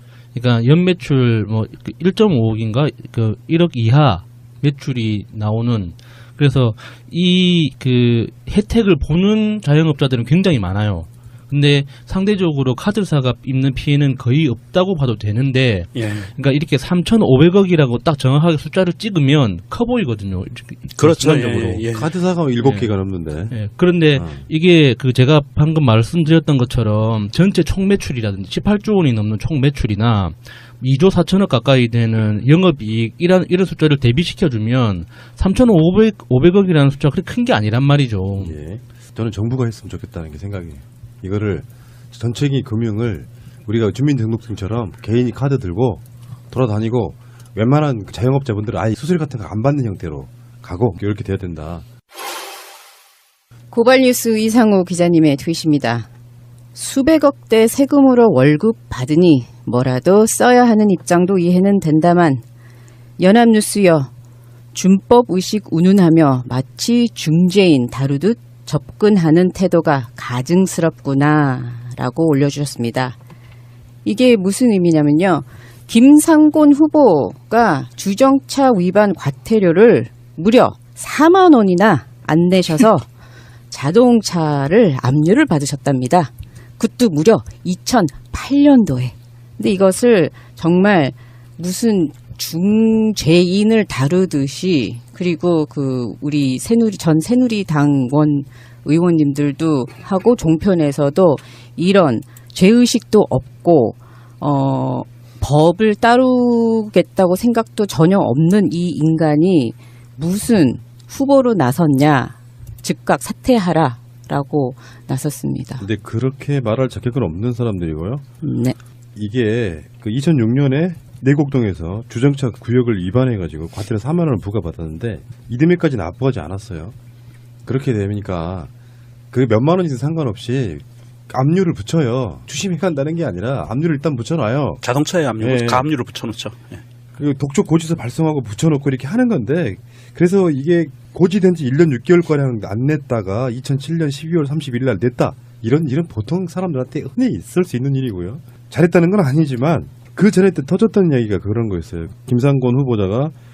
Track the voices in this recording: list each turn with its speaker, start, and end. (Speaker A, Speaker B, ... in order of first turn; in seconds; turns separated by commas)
Speaker A: 0.3-21.8, Speaker B: 15.9-16.3, Speaker B: 21.0-22.0, Speaker C: 21.3-24.4, Speaker A: 22.6-38.5, Speaker C: 38.4-51.8, Speaker D: 53.7-56.1, Speaker D: 56.7-62.4, Speaker D: 63.2-64.1, Speaker D: 64.7-73.2, Speaker D: 74.0-83.0, Speaker D: 83.7-115.8, Speaker C: 115.8-118.2, Speaker D: 118.4-118.8, Speaker C: 119.1-126.9, Speaker C: 127.7-128.7, Speaker C: 129.3-134.8, Speaker B: 134.8-136.8, Speaker C: 135.4-135.9, Speaker C: 137.2-153.3